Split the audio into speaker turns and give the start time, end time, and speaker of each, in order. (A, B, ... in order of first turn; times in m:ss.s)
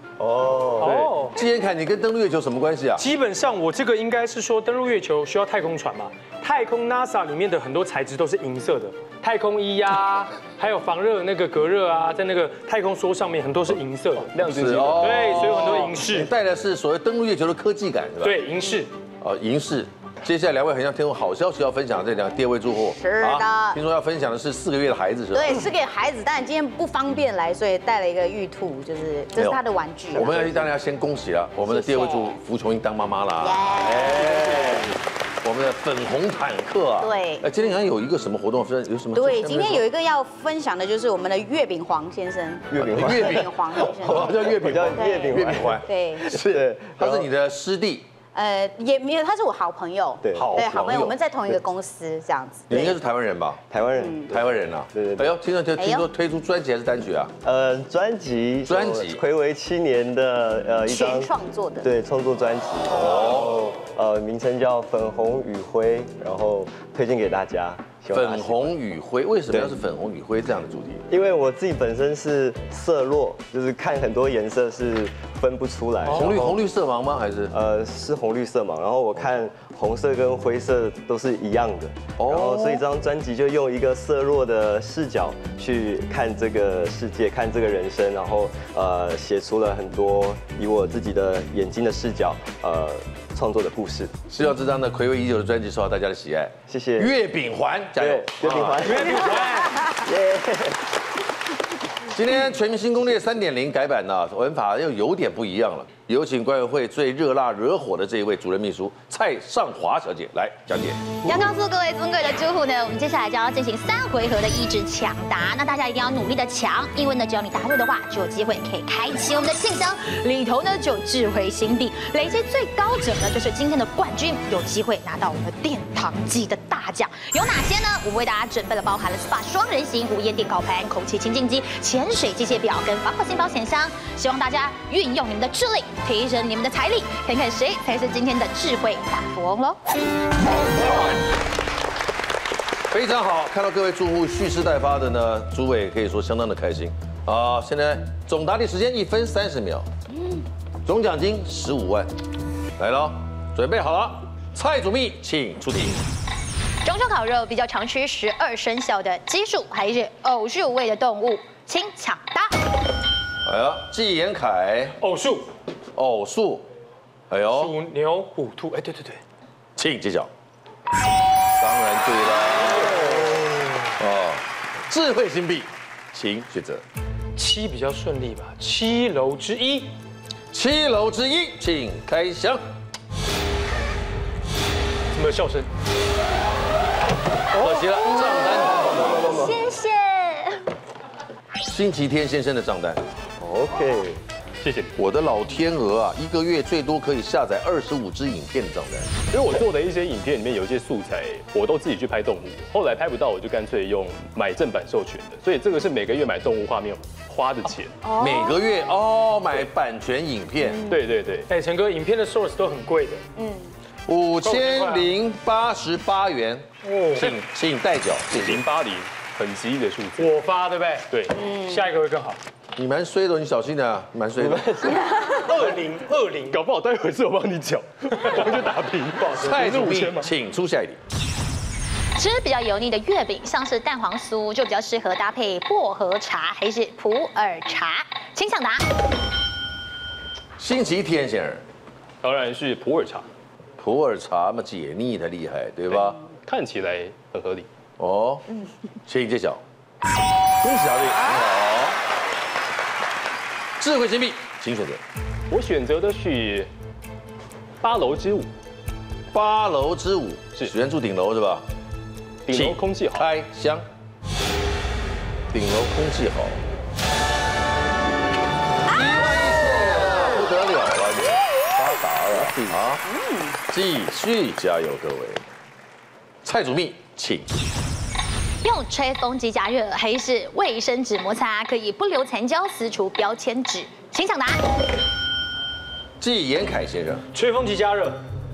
0:00.2-0:01.1 A
0:00.8-0:01.1 B
0:00.9-0:01.3 C
0:01.3-0:03.1 D
0:03.0-0:14.3 C
0:14.3-0:16.0 B
0:14.4-0:18.4 D
0:15.0-0:16.3 C
0:18.2-0:18.9 C
0:19.2-0:25.6 D
0:22.8-0:23.8 E
0:25.3-0:30.6 E
0:30.1-0:34.9 D
0:31.6-0:32.4 E
0:33.4-0:34.9 E
0:35.4-0:39.8 D
0:37.0-0:37.4 E
0:39.1-0:46.3 E
0:42.7-0:47.3 A
0:42.8-0:48.1 D
0:48.3-0:52.9 E
0:50.2-0:50.7 A
0:50.3-0:51.2 D
0:52.7-0:53.6 D
0:53.7-0:55.3 A
0:54.0-0:54.3 E
0:54.3-0:57.3 D
0:55.8-0:56.1 E
0:57.4-1:01.3 A
0:58.6-0:59.2 D
1:00.9-1:01.9 E
1:01.8-1:08.7 A
1:02.9-1:03.6 D
1:08.1-1:11.0 D
1:09.5-1:09.8 A
1:11.1-1:16.6 A
1:16.1-1:17.5 D
1:17.5-1:34.2 A
1:22.2-1:22.8 D
1:34.3-1:39.1 D
1:36.7-1:37.1 A
1:38.0-1:40.8 A
1:38.8-1:40.0 C
1:42.1-1:51.4 D
1:51.2-2:19.8 F
2:22.9-2:29.9 D
2:30.9-2:32.1 D
2:32.8-2:36.0 D
2:36.8-2:42.5 F
2:43.4-2:45.0 D
2:45.0-2:45.5 C
2:46.0-2:46.7 D
2:47.3-2:47.8 D
2:47.5-2:49.2 C
2:49.8-2:50.3 D
2:51.6-2:56.8 D
2:57.4-2:59.9 C
3:00.5-3:02.6 D
3:05.1-3:05.7 C
3:07.6-3:09.2 D
3:08.0-3:10.6 G
3:08.8-3:09.5 A
3:11.7-3:13.0 D
3:13.4-3:14.2 A
3:14.6-3:15.0 B
3:15.0-3:19.1 D
3:19.3-3:28.0 B
3:28.0-3:28.6 G
3:28.2-3:30.8 D
3:30.9-3:31.5 B
3:31.5-3:33.2 C
3:33.4-3:33.7 E
3:34.1-3:38.6 D
3:34.4-3:35.1 C
3:36.8-3:37.4 C
3:38.3-3:40.4 B
3:40.2-3:42.4 C
3:41.3-3:41.9 E
3:42.8-3:44.9 D
3:44.4-3:45.0 A
3:45.0-3:46.6 C
3:45.1-3:45.4 B
3:46.5-3:50.3 B
3:49.3-3:51.0 D
3:52.2-3:58.8 F
4:00.6-4:01.6 D
4:02.2-4:03.3 B
4:03.8-4:06.2 D
4:05.9-4:07.7 B
4:08.0-4:08.5 D
4:09.0-4:09.6 D
4:10.6-4:12.0 D
4:13.8-4:15.0 D
4:15.5-4:16.7 B
4:17.8-4:18.5 B
4:19.3-4:21.7 D
4:22.5-4:23.3 B
4:22.5-4:23.8 D
4:25.5-4:26.6 D
4:28.8-4:33.0 D
4:33.0-4:33.6 E
4:33.7-4:35.4 D
4:36.4-4:37.5 D
4:38.6-4:44.6 F
4:46.2-4:47.3 D
4:47.3-4:48.2 C